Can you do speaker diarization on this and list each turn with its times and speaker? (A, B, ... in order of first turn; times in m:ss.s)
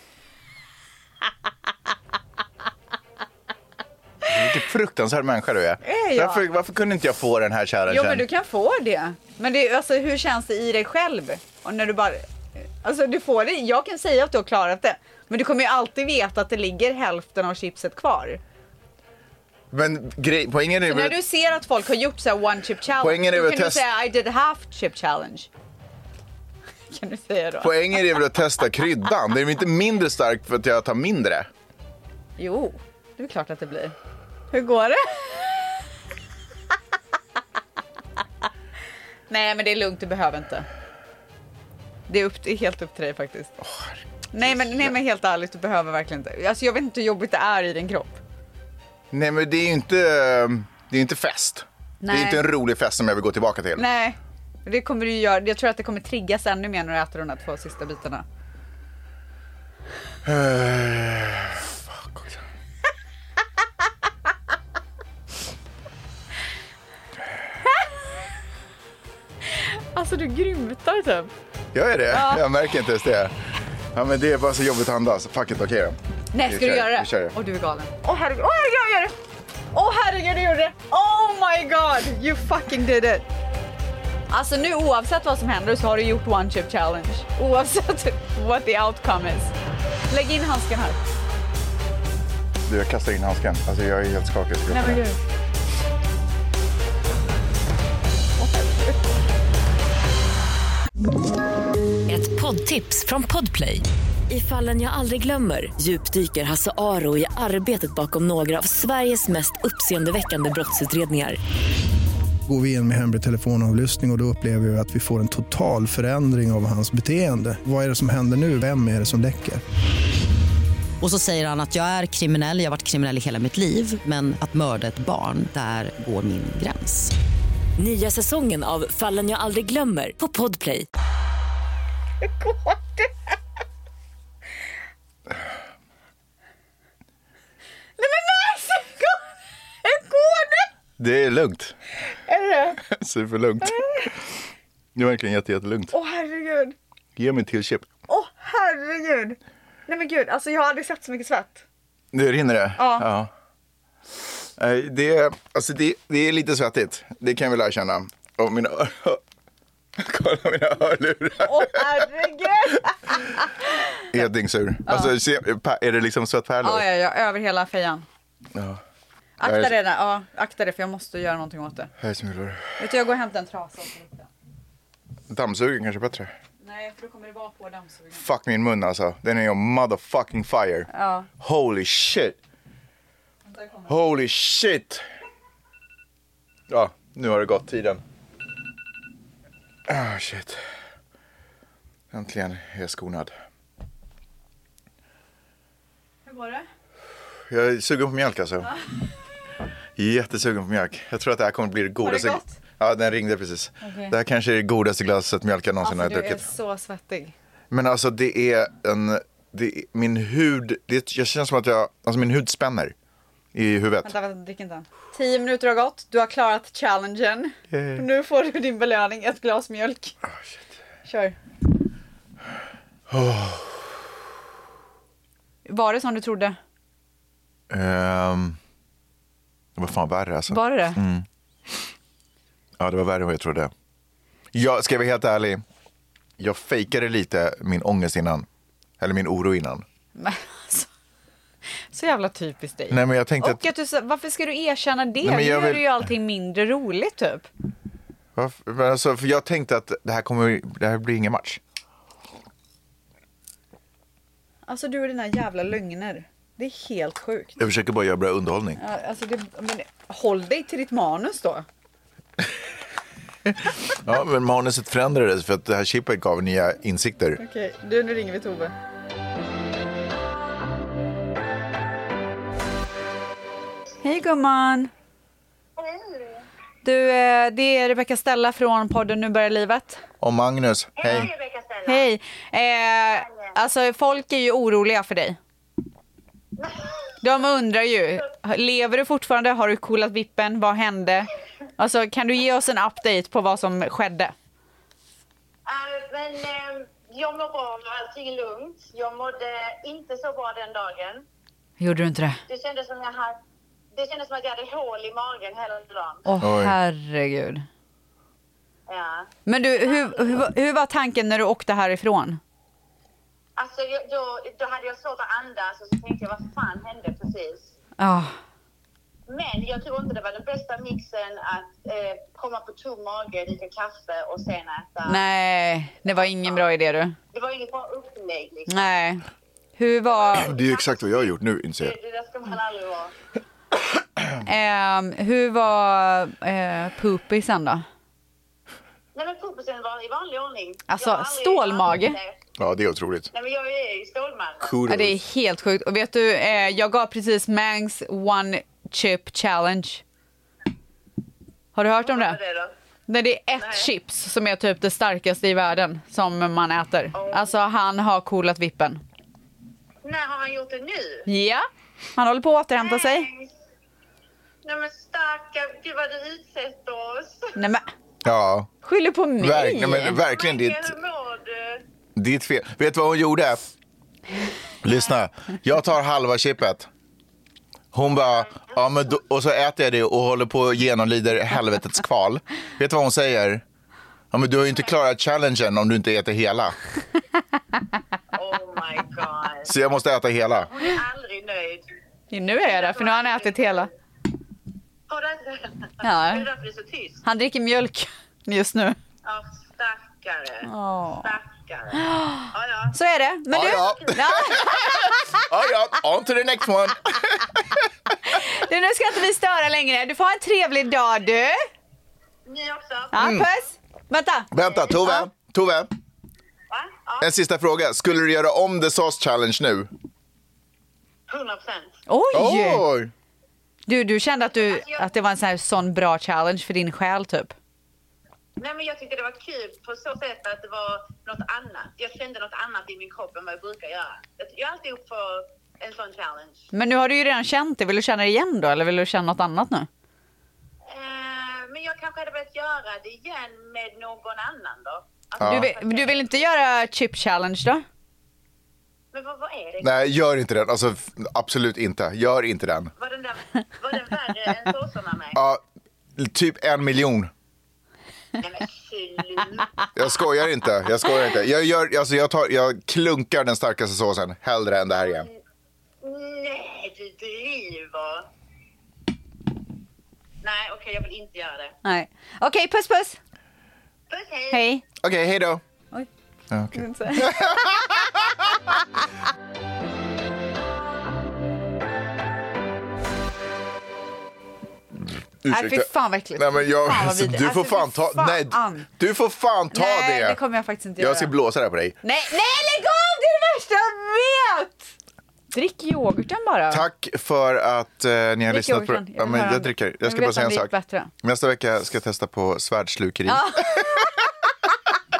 0:04.2-0:08.2 A
0:05.8-0:06.4 B
0:07.9-0:18.4 B
0:19.7-0:21.2 A
0:20.9-0:25.5 B
0:23.0-0:23.8 A
0:26.9-0:28.2 B
0:27.6-0:31.5 A
0:32.4-0:33.9 B
0:34.5-0:35.7 B
0:39.3-0:40.6 B
0:42.1-0:43.5 B
0:43.6-0:45.0 A
0:44.3-0:48.2 B
0:49.1-0:53.9 A
0:52.0-0:52.5 B
0:53.8-0:58.2 B
1:00.2-1:02.4 A
1:09.5-1:11.3 B
1:11.7-1:13.3 A
1:12.1-1:12.4 B
1:13.9-1:17.3 A
1:16.3-1:19.2 B
1:19.7-1:23.2 B
1:24.3-1:29.5 B
1:30.1-1:31.0 B
1:32.6-1:35.0 A
1:34.7-1:35.2 B
1:38.4-1:39.0 B
1:42.1-1:51.4 C
1:52.4-1:59.6 D
2:01.0-2:07.1 E
2:07.8-2:10.9 C
2:12.2-2:13.1 B
2:18.0-2:19.2 B
2:19.8-2:20.7 B
2:21.0-2:21.8 A
2:22.3-2:22.8 B
2:22.8-2:24.2 A
2:23.6-2:24.1 B
2:24.9-2:25.9 A
2:25.9-2:26.8 B
2:27.2-2:27.9 A
2:28.1-2:31.6 B
2:32.1-2:33.3 A
2:32.8-2:33.1 B
2:34.6-2:39.2 A
2:40.0-2:42.0 A
2:41.4-2:44.0 B
2:44.1-2:46.9 A
2:46.6-2:48.0 B
2:48.5-2:48.8 A
2:49.4-2:51.9 B
2:49.4-2:49.8 A
2:52.0-2:52.8 A
2:52.8-2:54.3 B
2:55.3-2:56.3 A
2:56.6-2:58.2 B
2:58.1-3:02.4 A
3:00.9-3:01.3 B
3:03.5-3:03.9 B
3:03.9-3:05.0 A
3:06.7-3:08.0 A
3:09.9-3:10.6 A
3:12.1-3:13.3 A
3:16.2-3:16.6 B
3:17.5-3:18.7 A
3:20.0-3:26.5 A
3:22.0-3:22.6 B
3:23.8-3:24.2 B
3:25.8-3:27.3 B
3:27.7-3:32.9 A
3:33.5-3:34.1 A
3:34.0-3:40.2 B
3:37.7-3:38.0 A
3:41.0-3:41.4 B
3:43.1-3:43.8 A
3:45.6-3:46.6 B
3:47.7-3:48.6 A
3:49.8-3:51.2 A
3:50.5-3:51.0 B
3:52.8-3:53.7 A
3:54.5-3:55.6 A
3:56.4-3:58.4 A
3:59.0-3:59.8 A
4:00.2-4:00.9 B
4:01.9-4:07.5 B
4:02.9-4:03.6 A
4:05.2-4:05.9 A
4:08.3-4:11.6 A
4:14.6-4:17.6 B
4:17.6-4:18.8 A
4:18.8-4:21.6 B
4:23.4-4:27.4 A
4:27.4-4:28.7 B
4:34.0-4:34.9 B
4:35.8-4:36.5 F
4:36.8-4:40.0 B
4:40.2-4:41.3 A
4:41.0-4:42.1 F
4:41.8-4:45.4 B
4:43.2-4:43.5 F
4:46.6-4:47.1 F
4:47.2-4:54.3 B
4:55.6-5:01.2 F
5:01.8-5:02.4 B
5:02.5-5:03.4 F
5:03.9-5:06.3 F
5:06.2-5:07.6 B
5:06.4-5:06.8 A
5:08.9-5:10.4 F
5:09.4-5:12.4 B
5:13.6-5:17.7 F
5:18.0-5:18.4 B
5:19.3-5:25.2 F
5:25.0-5:27.2 B
5:26.1-5:26.7 F
5:27.3-5:28.9 F
5:28.7-5:29.2 B
5:29.8-5:30.5 B
5:30.1-5:33.1 F
5:30.3-5:31.9 A
5:34.4-5:37.8 B
5:39.1-5:42.4 F
5:40.9-5:42.2 B
5:42.6-5:43.3 A
5:43.3-5:44.8 F
5:44.6-5:45.2 A
5:44.9-5:50.0 B
5:51.7-5:52.4 B
5:52.0-5:52.7 F
5:53.1-5:59.0 B
5:53.6-5:53.9 F
5:57.1-5:57.5 F
6:00.0-6:01.3 F
6:01.2-6:03.3 B
6:02.8-6:03.5 F
6:04.6-6:07.6 F
6:07.6-6:07.8 B
6:08.2-6:08.7 A
6:08.8-6:10.2 B
6:09.4-6:10.9 A
6:10.2-6:11.8 F
6:12.2-6:13.6 A
6:14.8-6:16.9 A
6:17.9-6:23.6 A
6:18.1-6:19.1 F
6:24.3-6:26.8 A
6:28.3-6:29.8 F
6:29.6-6:30.7 A
6:30.5-6:31.9 F
6:32.3-6:33.9 B
6:32.6-6:33.9 F
6:35.1-6:37.2 F
6:36.0-6:36.5 B
6:37.2-6:39.0 B
6:39.2-6:43.0 F
6:40.6-6:41.3 B
6:41.9-6:45.4 B
6:43.5-6:47.6 A
6:43.7-6:44.1 F
6:48.2-6:51.6 B
6:52.4-6:53.5 F
6:53.1-6:55.3 B
6:53.2-6:53.5 A
6:54.5-6:55.9 A
6:56.7-6:57.3 F
6:57.2-6:59.9 A
7:01.3-7:02.0 F
7:02.1-7:02.8 B
7:02.3-7:03.1 A
7:03.9-7:07.6 B
7:04.4-7:05.1 F
7:08.6-7:16.7 F
7:16.7-7:19.9 B
7:20.9-7:26.4 F
7:25.4-7:25.7 A
7:25.4-7:27.8 B
7:29.1-7:30.0 F
7:29.8-7:32.9 A
7:33.0-7:35.4 F
7:35.3-7:35.6 A
7:36.2-7:37.3 A
7:38.4-7:40.2 F
7:39.9-7:45.3 A
7:44.9-7:45.4 F
7:46.0-7:48.3 F
7:50.4-7:51.7 F
7:51.8-7:53.2 B
7:54.1-7:54.7 F
7:54.5-7:54.8 B
7:55.0-7:55.6 A
7:56.5-7:58.3 A
7:56.7-7:58.2 B
8:05.4-8:10.4 A
8:05.5-8:08.9 B
8:09.7-8:11.3 B
8:11.0-8:12.0 A
8:12.0-8:14.9 B
8:15.5-8:16.8 B
8:16.7-8:24.1 A
8:18.5-8:21.1 B
8:23.2-8:24.2 B